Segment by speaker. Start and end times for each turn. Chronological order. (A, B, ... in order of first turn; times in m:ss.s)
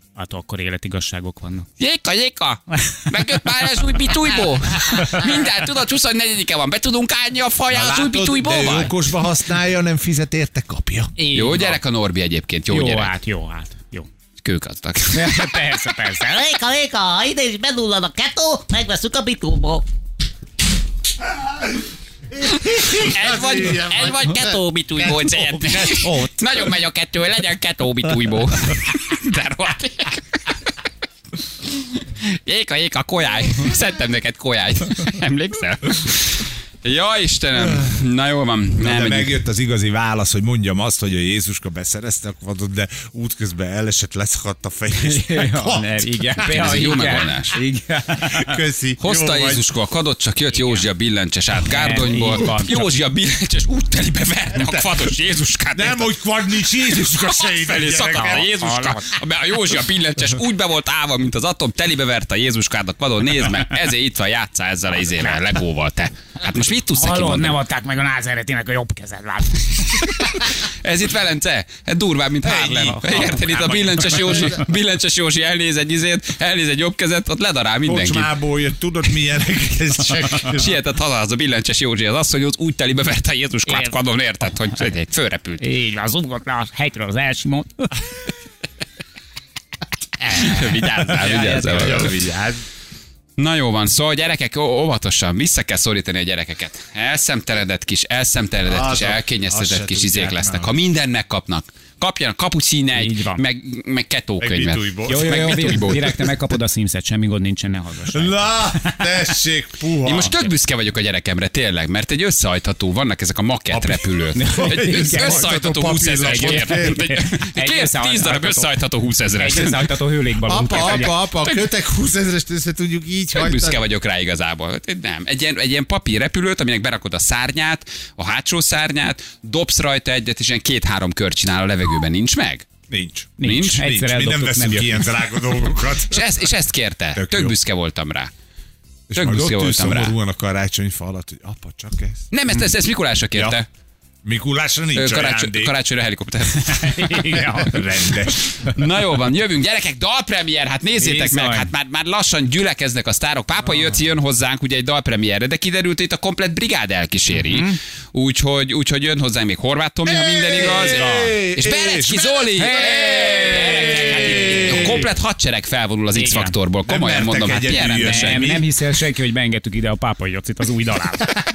0:00.2-0:01.7 A
0:01.8-0:08.9 B
0:04.8-0:05.2 A
0:07.7-0:11.1 C
0:11.2-0:11.8 A
0:11.3-0:13.1 B
0:12.7-0:14.1 A
0:14.4-0:15.5 B
0:15.1-0:16.4 A
0:16.2-0:19.9 D
0:22.5-0:30.6 B
0:22.7-0:24.3 C
0:24.3-0:24.8 D
0:25.0-0:26.3 C
0:31.7-0:39.4 B
0:38.8-0:46.8 C
0:45.0-0:48.6 A
0:46.4-0:47.6 B
0:48.2-0:49.6 C
0:49.0-0:56.1 B
0:51.7-0:52.9 A
0:54.5-0:55.0 C
0:55.7-0:58.6 C
0:56.9-1:07.6 B
0:58.5-0:59.1 A
1:06.9-1:10.4 A
1:10.0-1:18.3 B
1:12.4-1:13.0 C
1:12.5-1:14.6 A
1:17.8-1:20.7 C
1:20.3-1:25.6 B
1:23.7-1:24.0 A
1:25.6-1:28.0 A
1:30.3-1:32.3 B
1:30.3-1:30.6 A
1:31.2-1:32.1 A
1:31.2-1:32.6 C
1:33.4-1:46.1 B
1:38.7-1:40.8 C
1:42.9-1:43.4 A
1:44.4-1:46.2 C
1:45.1-1:49.1 A
1:48.1-1:50.3 C
1:50.0-1:59.9 B
1:53.7-1:57.0 C
1:54.3-1:55.5 A
1:56.2-1:58.7 A
1:59.3-2:01.2 A
2:00.4-2:03.8 C
2:00.7-2:01.1 B
2:03.4-2:12.7 B
2:12.9-2:16.4 C
2:13.4-2:15.1 A
2:13.4-2:13.8 B
2:16.1-2:18.3 B
2:17.2-2:17.5 C
2:19.1-2:22.3 C
2:19.2-2:20.1 B
2:22.3-2:23.7 B
2:24.2-2:25.7 C
2:25.0-2:27.4 B
2:26.6-2:27.9 A
2:27.3-2:28.6 C
2:28.6-2:48.5 B
2:31.0-2:31.7 A
2:37.3-2:37.8 A
2:40.0-2:45.1 C
2:40.7-2:41.4 A
2:42.7-2:44.9 A
2:46.2-2:46.6 A
2:46.9-2:48.7 C
2:48.0-2:51.4 A